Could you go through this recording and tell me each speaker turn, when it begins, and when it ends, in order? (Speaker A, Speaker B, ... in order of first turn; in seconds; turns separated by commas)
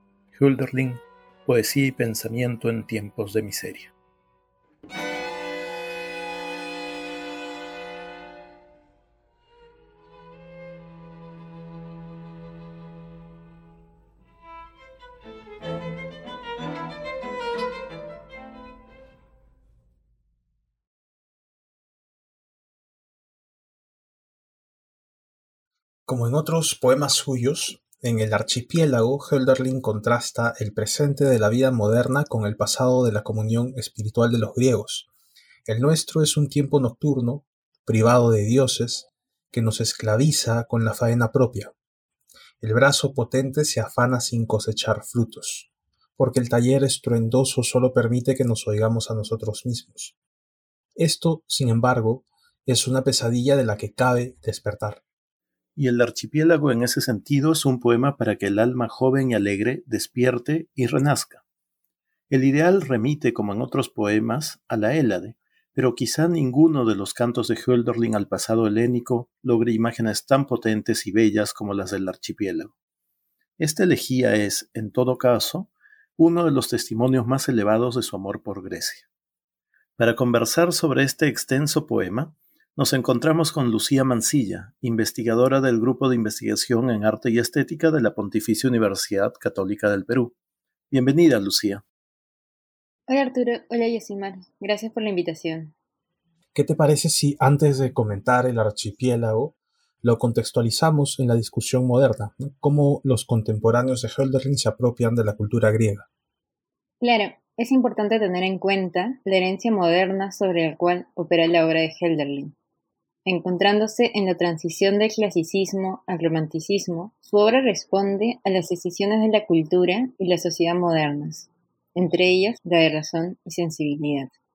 Speaker A: 0.3-3.9, Speaker B: 26.1-35.1, Speaker B: 35.6-41.7, Speaker B: 42.6-50.1, Speaker B: 51.0-55.0, Speaker A: 55.8-61.4, Speaker A: 62.3-72.7, Speaker A: 73.6-79.0, Speaker A: 80.0-90.3, Speaker A: 90.9-91.8, Speaker C: 93.1-95.7, Speaker B: 96.5-106.1, Speaker C: 107.0-112.5, Speaker C: 113.2-124.3